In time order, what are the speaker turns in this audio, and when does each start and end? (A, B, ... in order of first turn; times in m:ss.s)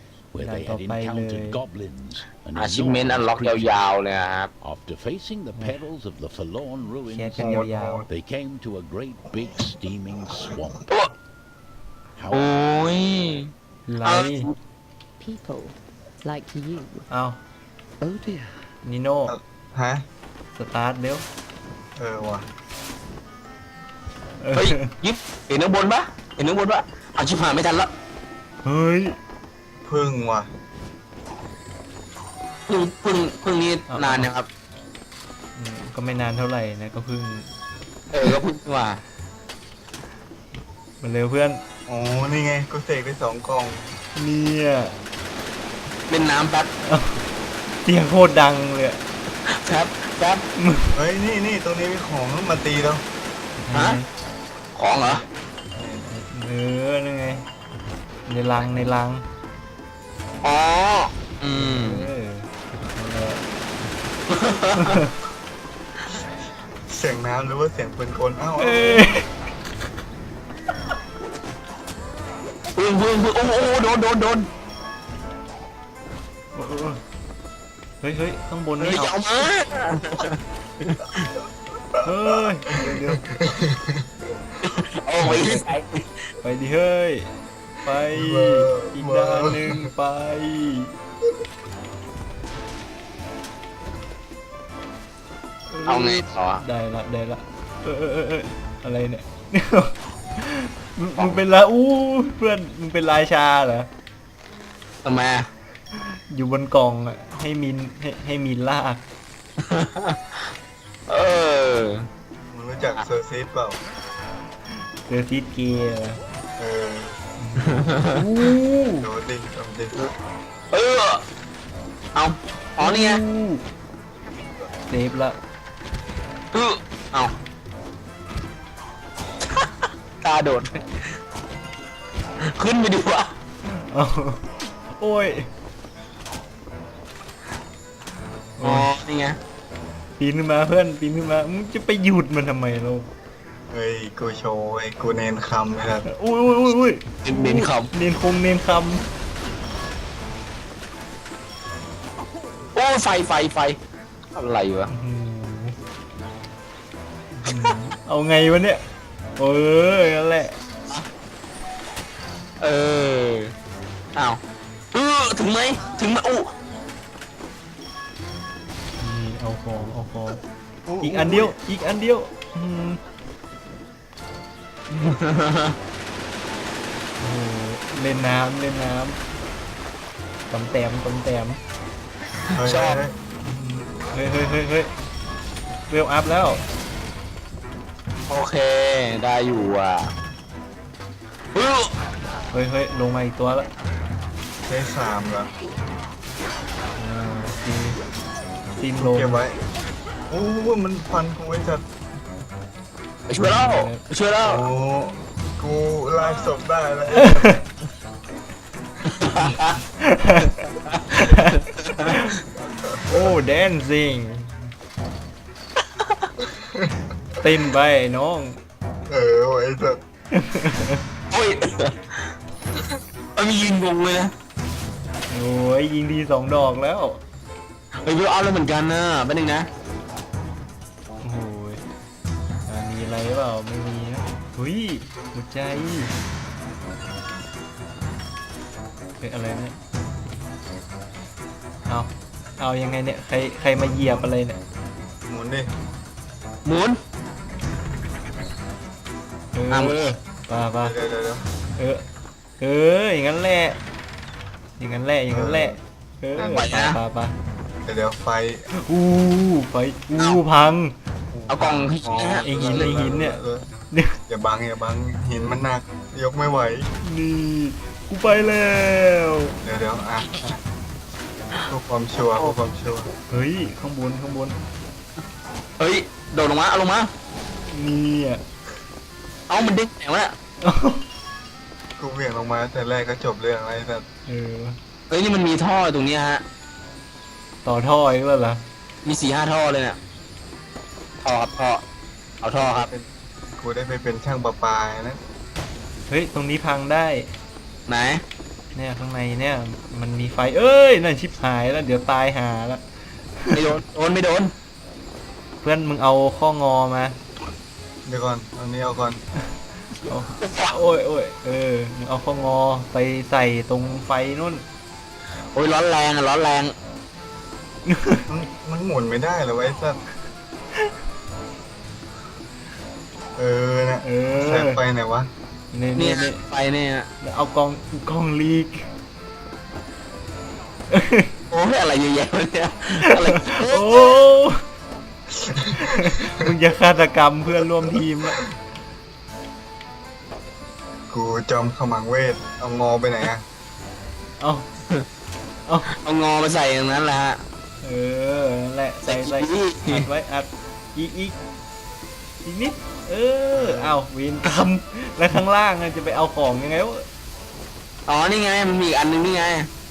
0:00.3-0:03.8 A
0:00.4-0:01.6 B
0:02.5-0:04.5 C
0:04.6-0:10.9 A
0:05.6-0:05.8 B
0:07.0-0:08.0 B
0:07.4-0:08.0 D
0:12.2-0:12.5 A
0:12.3-0:13.5 C
0:13.9-0:14.5 B
0:14.0-0:14.5 C
0:15.2-0:17.1 E
0:17.1-0:17.4 B
0:18.0-0:18.7 E
0:18.8-0:19.4 B
0:19.3-0:20.0 D
0:20.5-0:21.2 B
0:22.0-0:22.5 D
0:24.4-0:24.9 B
0:24.5-0:27.9 C
0:28.6-0:29.2 B
0:29.8-0:30.5 D
0:32.7-0:34.5 C
0:33.9-0:34.3 B
0:35.6-0:37.5 B
0:38.1-0:39.0 C
0:41.0-0:41.6 B
0:41.9-0:43.9 D
0:44.2-0:44.9 B
0:46.1-0:46.7 C
0:46.8-0:47.2 B
0:47.8-0:49.0 B
0:49.4-0:50.4 C
0:50.6-0:50.9 B
0:50.9-0:53.0 D
0:53.6-0:54.1 B
0:53.7-0:54.0 C
0:54.8-0:55.2 C
0:55.0-0:56.1 D
0:56.1-0:57.4 B
0:58.3-0:59.2 B
1:00.4-1:02.1 C
1:01.5-1:03.4 B
1:04.3-1:05.0 C
1:04.7-1:05.1 B
1:06.9-1:09.1 D
1:08.6-1:09.3 B
1:12.8-1:14.5 C
1:16.5-1:17.0 B
1:18.0-1:19.1 B
1:18.8-1:21.3 C
1:22.0-1:23.2 B
1:22.8-1:24.1 D
1:24.6-1:26.0 C
1:25.2-1:25.7 B
1:26.4-1:27.3 B
1:27.8-1:30.9 B
1:28.1-1:29.9 D
1:35.7-1:43.9 B
1:35.8-1:36.6 C
1:45.0-1:45.5 C
1:46.3-1:49.0 B
1:49.6-1:50.5 C
1:51.1-1:52.1 C
1:52.5-1:53.8 D
1:55.1-1:56.2 B
1:56.6-1:57.2 D
1:57.4-1:59.1 B
1:57.6-1:58.1 C
1:59.0-2:00.0 D
2:00.7-2:01.2 C
2:02.1-2:03.2 C
2:02.8-2:03.6 B
2:04.9-2:05.4 B
2:06.5-2:07.3 C
2:09.4-2:09.7 C
2:10.2-2:10.8 C
2:12.4-2:13.3 C
2:13.7-2:14.4 B
2:15.0-2:15.5 B
2:18.6-2:18.9 B
2:18.6-2:19.4 C
2:20.2-2:23.1 B
2:23.7-2:26.1 D
2:26.0-2:29.1 B
2:27.2-2:27.9 C
2:32.8-2:33.8 C
2:34.4-2:34.9 C
2:34.9-2:35.8 B
2:37.4-2:38.8 B
2:39.4-2:40.5 B
2:42.6-2:43.5 C
2:44.9-2:46.5 C
2:49.0-2:50.4 B
2:50.9-2:51.5 D
2:51.0-2:53.0 B
2:54.9-2:55.8 C
2:57.2-2:59.2 B
3:00.5-3:01.6 B
3:02.5-3:03.0 C
3:02.6-3:03.2 D
3:03.4-3:04.9 B
3:05.9-3:06.6 B
3:08.3-3:10.1 C
3:11.5-3:11.9 C
3:12.5-3:13.7 B
3:14.7-3:15.5 D
3:17.0-3:18.0 B
3:18.8-3:19.4 B
3:19.0-3:19.6 D
3:20.3-3:21.8 D
3:23.3-3:24.6 C
3:23.4-3:24.0 B
3:24.4-3:27.5 D
3:27.1-3:27.6 B
3:29.1-3:29.8 C
3:30.0-3:32.4 B
3:30.9-3:32.2 C
3:32.6-3:33.3 D
3:33.1-3:34.5 B
3:35.8-3:36.3 C
3:36.4-3:37.0 D
3:37.4-3:38.6 B
3:39.1-3:40.0 D
3:40.3-3:41.0 B
3:41.3-3:42.8 C
3:43.4-3:44.3 C
3:45.3-3:47.2 B
3:48.0-3:49.7 C
3:51.2-3:51.8 B
3:52.7-3:56.1 B
3:59.2-3:59.8 B
4:01.9-4:04.6 B
4:03.9-4:04.3 D
4:05.3-4:05.7 D
4:06.6-4:07.0 C
4:09.5-4:11.0 B
4:09.7-4:10.0 C
4:10.8-4:11.4 D
4:11.8-4:12.0 B
4:12.6-4:13.8 B
4:14.8-4:17.3 B
4:15.3-4:15.8 D
4:16.4-4:16.6 D
4:16.5-4:17.0 C
4:17.8-4:18.7 D
4:18.7-4:20.9 B
4:21.3-4:23.7 D
4:21.5-4:22.9 C
4:22.4-4:23.4 B
4:23.9-4:24.2 B
4:24.3-4:26.9 D
4:27.0-4:29.6 B
4:29.6-4:30.6 D
4:31.7-4:33.1 D
4:33.3-4:34.6 B
4:35.8-4:37.1 C
4:37.7-4:38.4 B
4:39.5-4:40.4 C
4:40.6-4:41.0 B
4:42.0-4:44.1 D
4:44.3-4:44.8 B
4:45.1-4:46.4 C
4:47.6-4:48.6 B
4:49.0-4:50.0 C
4:51.2-4:51.8 C
4:52.4-4:52.9 C
4:52.6-4:55.2 D
4:56.1-4:57.3 B
4:57.9-4:58.2 C
4:58.8-5:02.8 B
5:03.4-5:03.7 B
5:03.5-5:04.5 C
5:05.6-5:07.2 B
5:08.1-5:09.2 D
5:10.1-5:14.6 B
5:10.4-5:10.8 C
5:15.5-5:16.7 C
5:17.9-5:18.3 B
5:18.3-5:20.0 D
5:23.4-5:25.3 D
5:24.0-5:24.8 B
5:25.7-5:26.4 B
5:26.0-5:27.1 C
5:27.2-5:28.9 B
5:30.9-5:31.3 B
5:31.5-5:34.2 C
5:33.0-5:34.6 B
5:35.4-5:36.4 D
5:35.8-5:38.4 B
5:41.1-5:43.4 D
5:44.4-5:44.6 B
5:46.0-5:47.4 C
5:47.8-5:51.4 B
5:49.0-5:50.1 C
5:52.4-5:57.1 B
5:53.6-5:54.0 D
5:58.1-5:59.7 C